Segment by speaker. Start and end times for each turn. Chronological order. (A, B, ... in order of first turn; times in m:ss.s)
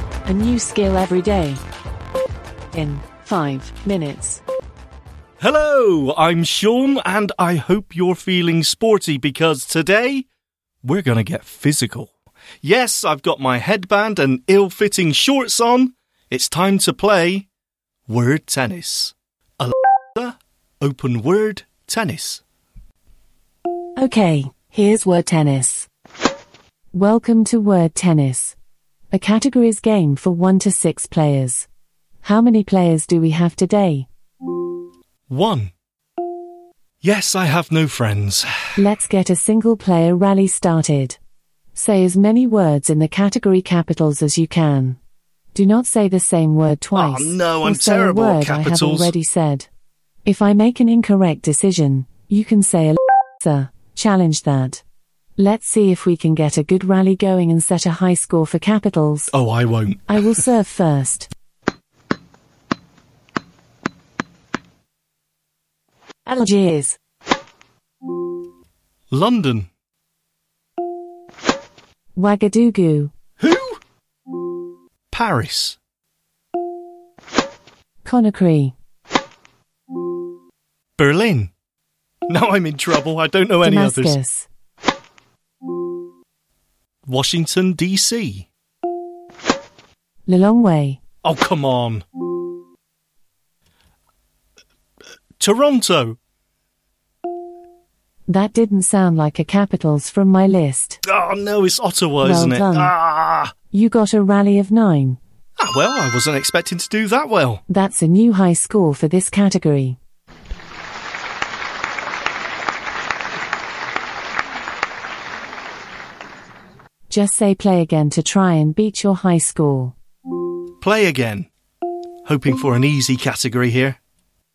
0:00.2-0:01.6 A
0:02.7-0:04.4 A
0:05.4-0:10.2 B
0:10.8-0:12.1 B
0:12.6-0:17.5 B
0:18.1-0:22.4 B
0:24.0-0:25.9 A
0:26.9-0:28.6 A
0:29.1-0:31.7 A
0:32.2-0:34.1 A
0:35.3-0:35.7 B
0:37.0-0:38.7 B
0:38.8-0:41.2 A
0:41.7-0:45.0 A
0:45.5-0:49.7 A
0:46.9-0:49.1 B
0:50.2-0:54.8 A
0:55.4-0:59.3 A
0:59.3-1:00.3 B
1:00.1-1:01.3 A
1:06.2-1:07.0 A
1:09.1-1:09.7 B
1:12.2-1:13.1 A
1:13.4-1:13.8 B
1:15.1-1:15.8 B
1:18.0-1:18.7 A
1:21.0-1:21.5 B
1:22.3-1:24.2 B
1:23.6-1:24.5 A
1:27.0-1:28.5 B
1:30.3-1:31.0 A
1:31.2-1:32.0 B
1:35.4-1:36.2 B
1:38.3-1:41.0 A
1:41.0-1:43.5 B
1:42.2-1:42.9 A
1:43.7-1:45.2 A
1:45.6-1:47.6 B
1:47.7-1:50.0 A
1:57.1-2:00.0 A
2:00.8-2:01.5 B
2:02.2-2:04.0 B